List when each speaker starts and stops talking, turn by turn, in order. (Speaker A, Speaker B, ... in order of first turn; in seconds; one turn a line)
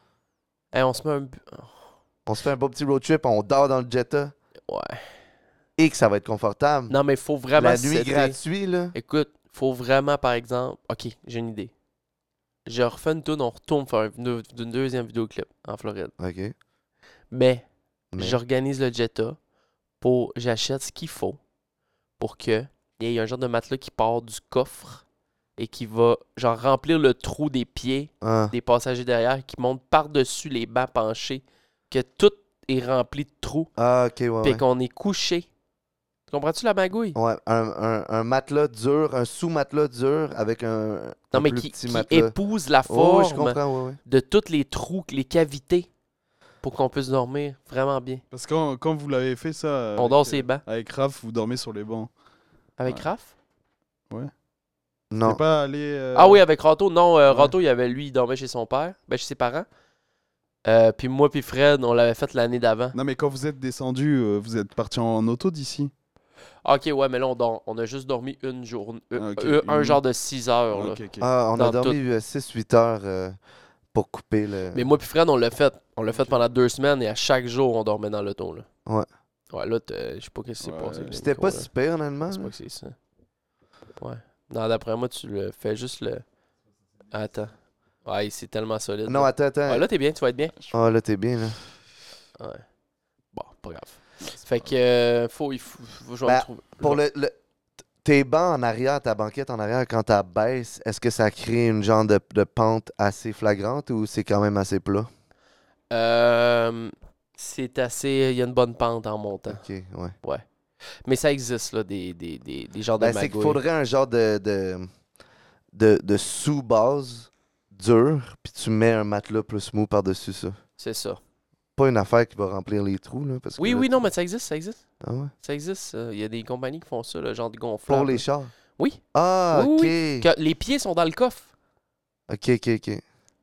Speaker A: 0.7-1.9
Speaker B: 2.3-4.3
Speaker A: 4.7-5.0
Speaker B: 5.8-7.0
Speaker A: 6.9-8.4
Speaker B: 7.6-8.9
Speaker A: 8.9-11.7
Speaker A: 12.7-16.1
Speaker B: 16.2-16.5
Speaker A: 17.3-17.6
Speaker B: 18.1-18.4
Speaker A: 18.2-19.4
Speaker A: 20.0-21.4
Speaker A: 22.2-25.0
Speaker A: 25.6-33.7
Speaker B: 28.2-28.5
Speaker B: 33.8-34.6
Speaker A: 34.4-35.5
Speaker A: 36.3-37.2
Speaker B: 37.1-42.4
Speaker A: 41.3-45.9
Speaker B: 42.9-44.0
Speaker A: 46.6-48.2
Speaker C: 48.3-52.1
Speaker A: 50.0-50.6
Speaker A: 52.8-53.3
Speaker B: 55.1-55.4
Speaker C: 55.2-56.4
Speaker A: 56.1-59.7
Speaker C: 57.3-57.5
Speaker A: 60.7-63.0
Speaker C: 62.9-65.9
Speaker A: 66.7-71.0
Speaker C: 69.2-70.0
Speaker C: 70.7-71.3
Speaker B: 71.2-73.4
Speaker A: 71.5-72.0
Speaker B: 73.9-74.9
Speaker A: 74.7-78.7
Speaker C: 76.1-76.5
Speaker A: 79.5-81.7
Speaker C: 80.6-81.2
Speaker B: 81.1-82.5
Speaker A: 82.3-83.0
Speaker A: 84.0-86.2
Speaker A: 87.1-87.5
Speaker A: 88.0-90.5
Speaker B: 89.1-89.8
Speaker B: 90.7-91.6
Speaker A: 92.4-92.7
Speaker A: 93.3-97.0
Speaker C: 94.2-94.7
Speaker B: 96.2-97.3
Speaker B: 98.0-105.1
Speaker A: 105.9-109.6
Speaker B: 109.5-110.1
Speaker A: 111.0-113.6
Speaker B: 113.0-114.9
Speaker B: 115.7-120.6
Speaker A: 120.8-121.2
Speaker B: 121.8-124.0
Speaker A: 123.6-124.8
Speaker B: 125.0-125.3
Speaker A: 125.4-128.3
Speaker B: 127.9-128.5
Speaker A: 128.8-131.5
Speaker B: 129.1-130.3
Speaker B: 132.3-133.0